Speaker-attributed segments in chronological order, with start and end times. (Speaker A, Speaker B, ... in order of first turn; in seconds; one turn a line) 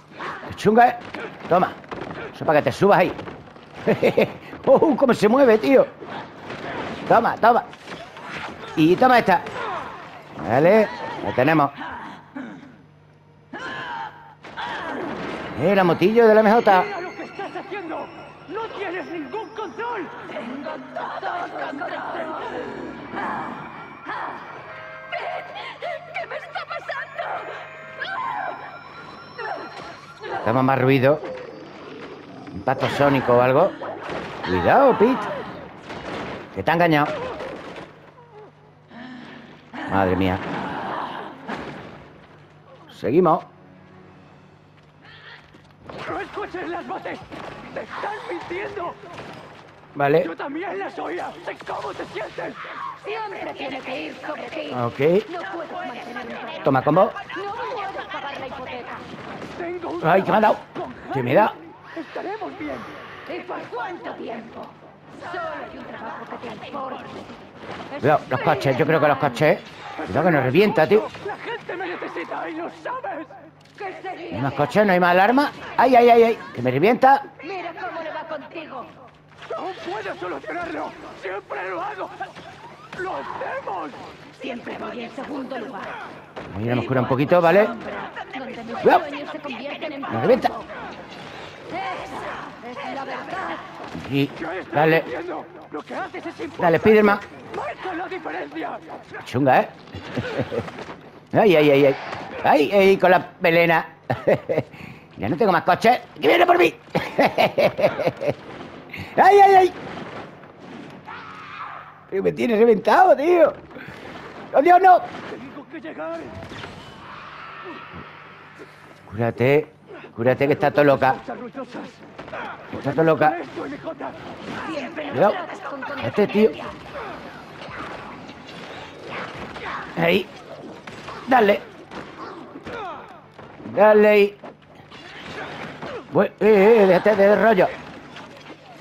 Speaker A: 0.5-1.8
Speaker A: 2.3-3.2
Speaker A: 3.8-5.9
Speaker A: 7.1-7.7
Speaker A: 8.8-9.5
Speaker A: 10.3-11.8
Speaker A: 15.6-16.9
Speaker B: 16.7-20.4
Speaker B: 21.4-22.4
Speaker A: 30.4-31.3
Speaker A: 32.5-33.8
Speaker A: 34.4-35.3
Speaker A: 36.5-37.1
Speaker A: 39.9-40.4
Speaker A: 42.9-43.5
Speaker B: 46.0-49.0
Speaker A: 50.0-50.3
Speaker B: 50.2-52.7
Speaker C: 53.0-59.0
Speaker A: 54.7-55.3
Speaker A: 56.6-57.2
Speaker B: 59.5-62.9
Speaker A: 60.0-61.5
Speaker C: 63.3-67.1
Speaker A: 68.0-71.1
Speaker C: 68.3-68.9
Speaker B: 70.0-73.3
Speaker C: 73.8-74.6
Speaker A: 74.3-77.3
Speaker C: 77.4-78.9
Speaker B: 79.5-82.3
Speaker B: 83.0-84.1
Speaker C: 84.4-85.9
Speaker A: 86.5-87.8
Speaker C: 87.3-90.7
Speaker A: 88.8-89.1
Speaker A: 90.1-90.5
Speaker C: 91.7-93.7
Speaker A: 93.9-95.1
Speaker B: 94.4-99.0
Speaker A: 96.6-97.2
Speaker A: 99.2-100.7
Speaker A: 101.3-108.4
Speaker A: 108.9-109.8
Speaker A: 112.1-113.6
Speaker A: 114.5-115.1
Speaker B: 115.3-116.4
Speaker A: 119.1-121.2
Speaker B: 120.4-122.0
Speaker B: 122.7-124.2
Speaker A: 122.7-123.4
Speaker C: 124.6-126.8
Speaker A: 125.1-126.6
Speaker A: 129.9-130.3
Speaker A: 131.3-131.6
Speaker A: 133.7-134.4
Speaker A: 136.1-137.7